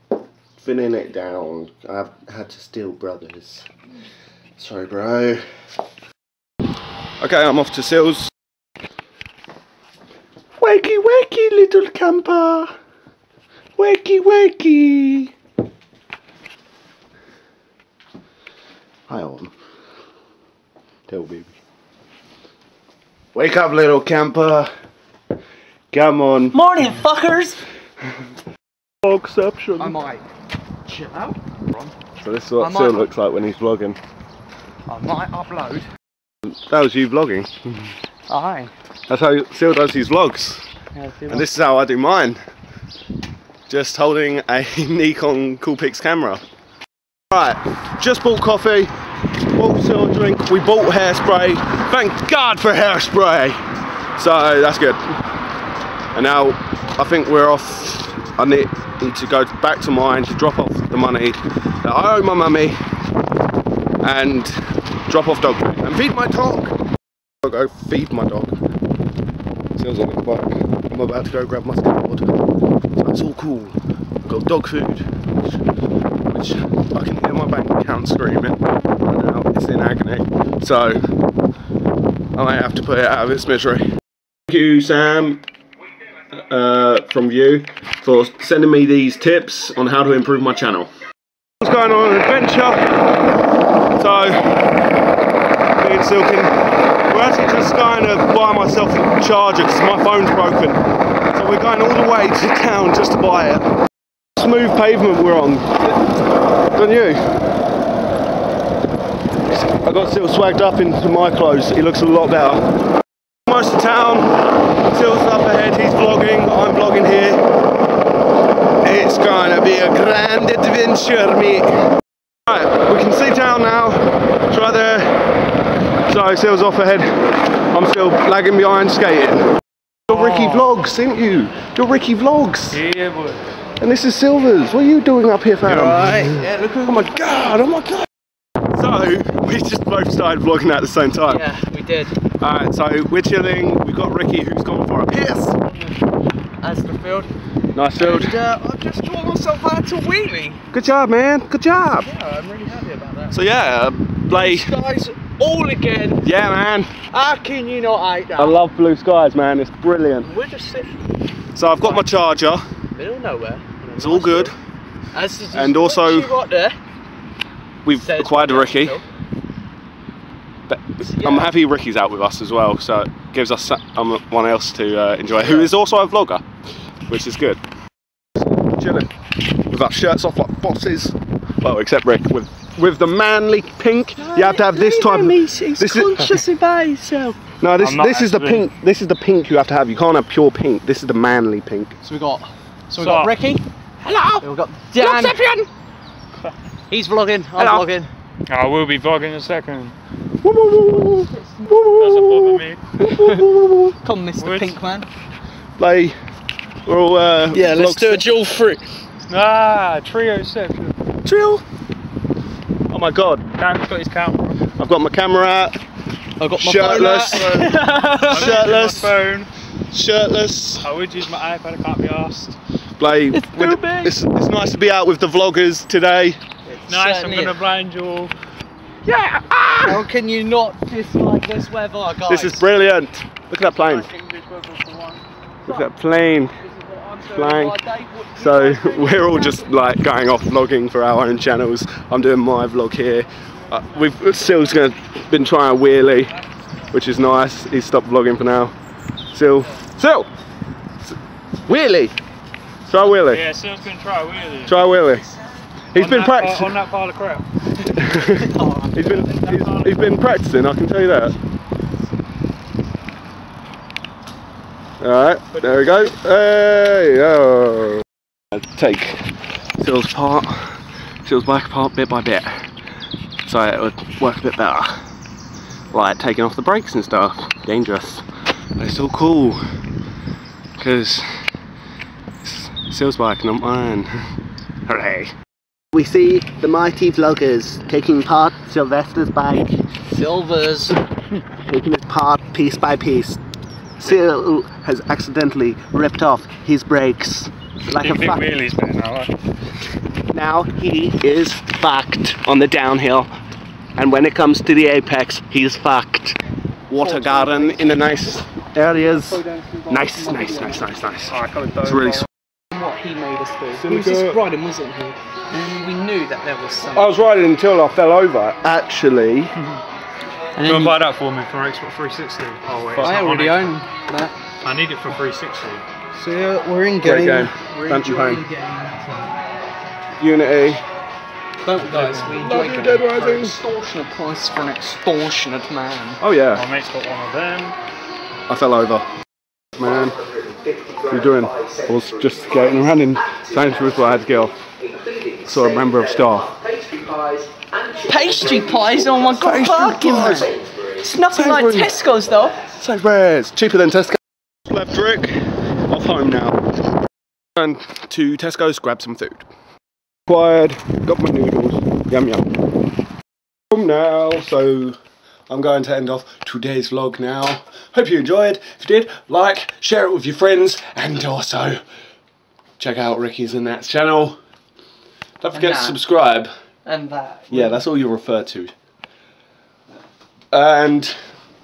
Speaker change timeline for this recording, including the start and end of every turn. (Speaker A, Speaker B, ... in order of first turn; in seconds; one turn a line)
Speaker A: 0.6-3.7
Speaker A: 4.6-5.4
Speaker A: 7.2-8.3
Speaker A: 10.6-12.7
Speaker A: 13.8-15.3
Speaker A: 19.1-19.5
Speaker A: 21.1-21.5
Speaker A: 23.3-24.7
Speaker A: 25.9-26.6
Speaker B: 26.5-27.6
Speaker A: 29.0-30.0
Speaker B: 29.8-30.2
Speaker B: 30.9-31.9
Speaker A: 32.2-34.0
Speaker B: 32.6-33.1
Speaker B: 34.9-35.9
Speaker A: 36.5-37.5
Speaker B: 38.3-38.7
Speaker A: 39.1-40.6
Speaker B: 41.0-41.5
Speaker A: 41.3-42.4
Speaker A: 43.7-46.4
Speaker A: 47.3-48.9
Speaker A: 49.6-53.6
Speaker A: 54.2-55.0
Speaker A: 56.1-62.8
Speaker A: 64.0-66.8
Speaker A: 67.4-68.6
Speaker A: 69.8-72.4
Speaker A: 73.0-75.1
Speaker A: 76.3-81.0
Speaker A: 82.3-83.8
Speaker A: 84.5-85.4
Speaker A: 86.3-90.9
Speaker A: 91.6-92.8
Speaker A: 94.0-94.6
Speaker A: 95.8-96.5
Speaker A: 97.1-100.8
Speaker A: 101.3-103.7
Speaker A: 104.4-105.9
Speaker A: 106.7-107.3
Speaker A: 109.5-112.6
Speaker A: 113.5-117.4
Speaker A: 118.8-121.8
Speaker A: 122.5-125.2
Speaker A: 126.1-127.1
Speaker A: 127.7-129.5
Speaker A: 130.1-132.8
Speaker C: 130.1-130.7
Speaker C: 132.7-133.4
Speaker A: 133.8-138.1
Speaker B: 135.7-136.7
Speaker A: 138.7-141.5
Speaker B: 141.3-142.2
Speaker A: 142.4-145.6
Speaker B: 146.6-147.3
Speaker A: 147.8-148.4
Speaker B: 147.9-150.7
Speaker A: 150.7-152.1
Speaker B: 152.0-153.5
Speaker A: 153.3-154.7
Speaker B: 154.3-156.3
Speaker A: 156.2-156.9
Speaker B: 157.1-158.6
Speaker A: 158.4-160.3
Speaker B: 160.2-161.0
Speaker A: 161.6-162.6
Speaker B: 161.8-162.2
Speaker B: 162.9-164.5
Speaker A: 164.0-164.6
Speaker B: 165.1-166.8
Speaker A: 165.5-166.4
Speaker A: 167.8-169.0
Speaker B: 167.9-169.1
Speaker A: 170.7-176.4
Speaker B: 171.0-171.5
Speaker B: 175.3-175.7
Speaker A: 177.1-177.6
Speaker A: 178.4-179.1
Speaker A: 179.7-186.4
Speaker B: 184.2-187.4
Speaker A: 187.6-192.0
Speaker C: 187.8-188.7
Speaker B: 192.0-193.6
Speaker C: 193.0-193.3
Speaker A: 194.0-194.5
Speaker B: 194.4-195.7
Speaker A: 195.0-195.6
Speaker B: 196.9-198.1
Speaker A: 197.6-197.9
Speaker C: 198.5-199.9
Speaker A: 200.4-204.0
Speaker C: 202.0-202.8
Speaker B: 203.0-203.4
Speaker B: 204.0-205.1
Speaker C: 204.4-204.8
Speaker A: 205.8-206.1
Speaker A: 206.8-208.3
Speaker B: 207.5-208.8
Speaker C: 209.3-210.9
Speaker A: 211.2-211.6
Speaker A: 212.9-213.4
Speaker C: 213.6-214.6
Speaker A: 214.8-215.8
Speaker B: 216.4-218.7
Speaker A: 216.6-217.8
Speaker C: 217.1-217.4
Speaker A: 218.3-219.1
Speaker C: 218.3-219.5
Speaker A: 219.9-220.9
Speaker C: 220.8-222.6
Speaker A: 223.0-226.4
Speaker B: 223.3-224.1
Speaker B: 226.7-227.6
Speaker C: 226.9-228.3
Speaker A: 229.1-230.1
Speaker B: 229.8-232.7
Speaker A: 232.3-234.1
Speaker B: 233.9-235.9
Speaker A: 235.7-236.5
Speaker B: 236.7-239.7
Speaker A: 237.2-237.8
Speaker A: 238.4-246.3
Speaker A: 246.9-248.7
Speaker A: 249.3-250.3
Speaker A: 251.7-252.1
Speaker A: 252.9-253.5
Speaker C: 253.1-254.8
Speaker A: 254.7-255.3
Speaker A: 255.9-256.8
Speaker C: 255.9-257.4
Speaker A: 257.9-261.4
Speaker B: 258.0-259.4
Speaker C: 259.4-260.0
Speaker A: 265.0-269.2
Speaker C: 265.6-266.1
Speaker A: 269.8-272.5
Speaker A: 273.5-274.9
Speaker A: 275.9-278.2
Speaker A: 278.8-279.6
Speaker A: 280.8-281.2
Speaker A: 282.4-284.1
Speaker A: 284.9-285.3
Speaker A: 285.9-289.8
Speaker B: 290.1-291.0
Speaker A: 291.6-293.4
Speaker A: 294.0-298.4
Speaker C: 297.9-299.3
Speaker A: 300.3-303.3
Speaker A: 304.0-306.4
Speaker A: 306.9-312.3
Speaker B: 306.9-308.0
Speaker B: 309.0-310.9
Speaker C: 311.3-312.3
Speaker B: 312.7-317.2
Speaker A: 313.7-314.4
Speaker A: 316.9-319.6
Speaker B: 320.6-321.0
Speaker C: 320.6-323.8
Speaker B: 323.0-324.4
Speaker C: 324.6-325.9
Speaker B: 326.1-329.3
Speaker A: 327.0-328.4
Speaker A: 330.2-330.8
Speaker B: 331.6-336.2
Speaker C: 331.9-332.4
Speaker A: 332.3-333.6
Speaker A: 336.2-336.6
Speaker C: 336.5-337.8
Speaker A: 338.5-339.1
Speaker A: 339.8-340.2
Speaker A: 341.1-344.6
Speaker A: 345.4-346.6
Speaker B: 347.9-352.6
Speaker A: 349.0-350.6
Speaker A: 351.1-352.0
Speaker A: 352.7-355.4
Speaker A: 355.9-356.6
Speaker A: 357.6-359.4
Speaker A: 360.3-362.5
Speaker A: 363.7-365.0
Speaker A: 365.5-371.8
Speaker A: 372.8-374.4
Speaker A: 375.4-376.5
Speaker B: 375.5-376.0
Speaker B: 376.9-377.8
Speaker A: 377.5-378.7
Speaker A: 380.5-381.1